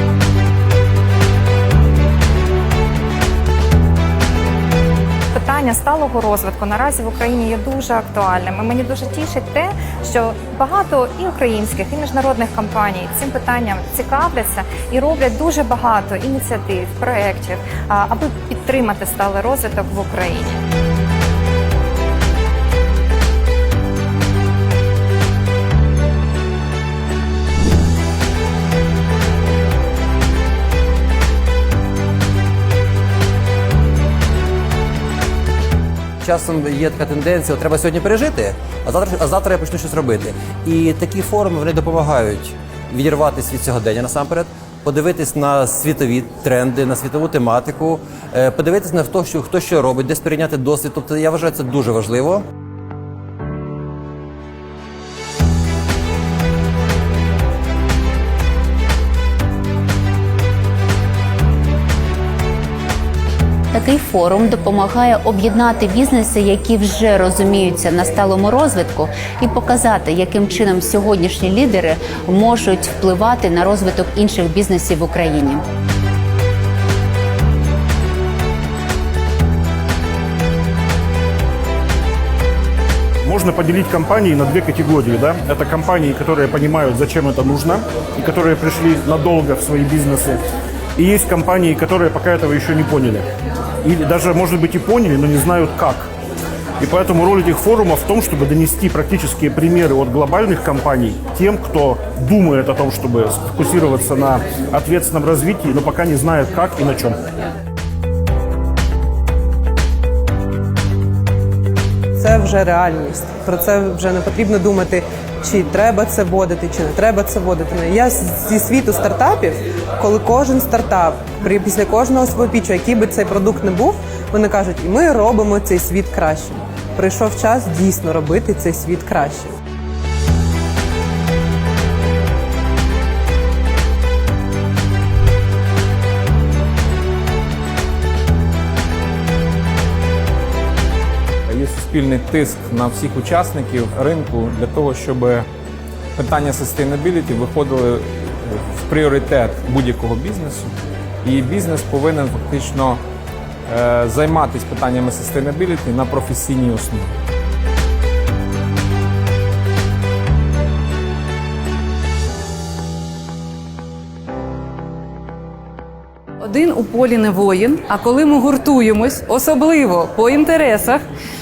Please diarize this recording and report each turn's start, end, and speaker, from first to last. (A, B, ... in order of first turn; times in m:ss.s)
0:05.3-0:20.6 A
0:36.2-0:52.4 B
1:03.7-1:15.6 C
1:23.2-1:30.4 D
1:31.0-1:33.2 D
1:33.8-1:36.1 D
1:36.8-1:47.2 D
1:52.2-2:09.6 E
2:21.5-2:25.5 F
2:26.2-2:33.0 F
2:33.7-2:37.1 F
2:46.4-2:51.0 G